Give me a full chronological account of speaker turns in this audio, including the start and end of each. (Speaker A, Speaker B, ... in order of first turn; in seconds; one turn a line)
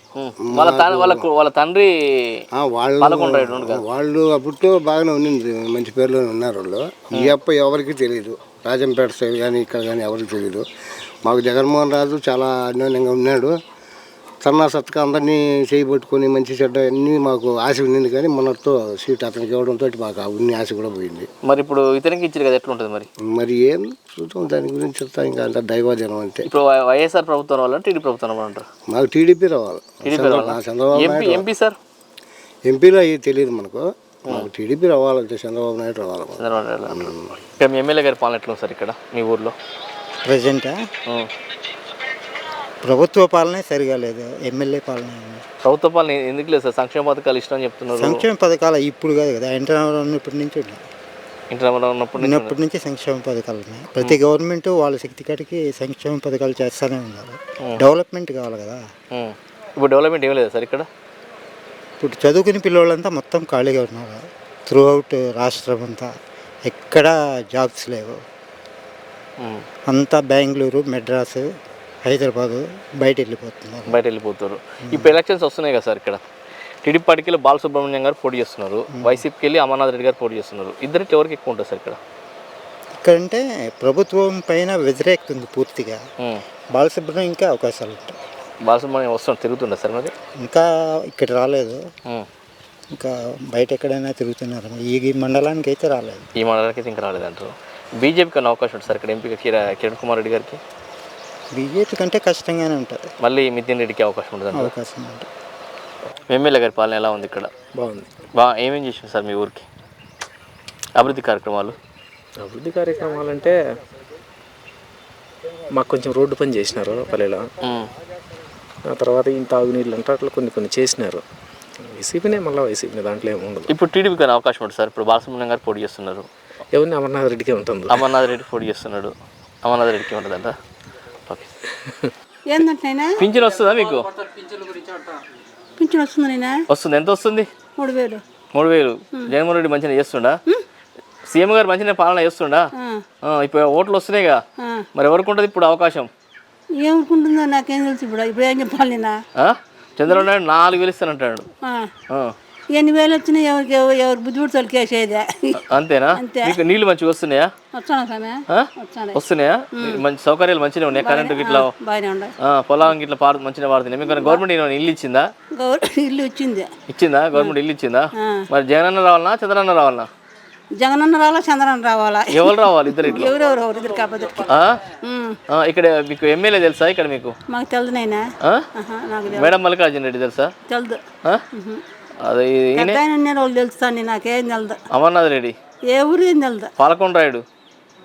Speaker A: 0.1-2.4
Speaker B: 0.5-1.2
Speaker B: 2.6-10.6
Speaker A: 3.0-3.8
Speaker B: 11.2-13.6
Speaker B: 14.4-21.3
Speaker A: 21.4-23.1
Speaker B: 23.2-26.4
Speaker A: 26.4-28.6
Speaker B: 28.9-31.4
Speaker A: 30.0-31.8
Speaker B: 32.7-37.4
Speaker A: 36.4-39.5
Speaker C: 40.2-40.8
Speaker C: 42.8-45.4
Speaker A: 45.6-48.2
Speaker C: 47.9-50.8
Speaker A: 51.5-52.5
Speaker C: 52.2-58.8
Speaker A: 59.1-60.9
Speaker C: 62.0-66.1
Speaker C: 66.6-68.2
Speaker A: 69.4-69.7
Speaker C: 69.9-71.5
Speaker C: 72.0-74.0
Speaker A: 73.9-76.2
Speaker C: 74.9-75.1
Speaker A: 76.8-82.0
Speaker C: 78.9-79.2
Speaker C: 83.0-86.0
Speaker C: 86.7-88.2
Speaker A: 88.7-90.1
Speaker C: 90.4-91.8
Speaker C: 92.9-96.3
Speaker A: 96.4-100.6
Speaker C: 101.5-103.1
Speaker A: 103.2-104.7
Speaker C: 104.5-105.3
Speaker A: 106.3-107.5
Speaker D: 107.8-108.1
Speaker A: 108.3-109.7
Speaker A: 111.0-111.8
Speaker D: 112.4-113.6
Speaker D: 115.7-117.5
Speaker A: 117.6-117.9
Speaker D: 118.9-121.2
Speaker D: 121.9-123.7
Speaker A: 123.7-126.3
Speaker D: 126.7-128.1
Speaker A: 127.9-130.6
Speaker E: 132.5-133.2
Speaker A: 133.2-134.1
Speaker E: 135.8-136.6
Speaker A: 136.7-137.5
Speaker E: 137.8-138.2
Speaker A: 138.5-140.4
Speaker A: 141.3-142.7
Speaker E: 142.8-143.0
Speaker A: 143.2-144.4
Speaker E: 144.6-144.8
Speaker A: 144.9-146.1
Speaker E: 146.8-149.2
Speaker A: 149.4-151.5
Speaker E: 151.6-151.9
Speaker E: 152.8-155.6
Speaker A: 155.6-157.5
Speaker E: 156.1-156.6
Speaker E: 157.7-159.2
Speaker A: 158.5-161.7
Speaker E: 159.7-160.0
Speaker E: 160.9-162.3
Speaker A: 162.4-165.3
Speaker E: 164.1-164.4
Speaker E: 165.6-166.7
Speaker A: 166.9-170.1
Speaker E: 168.2-168.4
Speaker E: 170.8-174.5
Speaker A: 172.3-173.3
Speaker A: 174.5-174.8
Speaker E: 175.0-175.4
Speaker A: 175.5-177.4
Speaker E: 177.5-179.6
Speaker A: 179.3-180.5
Speaker E: 180.7-181.0
Speaker E: 181.5-181.8
Speaker A: 182.2-183.0
Speaker E: 182.8-184.8
Speaker A: 184.9-185.6
Speaker E: 185.9-186.7
Speaker A: 186.8-187.4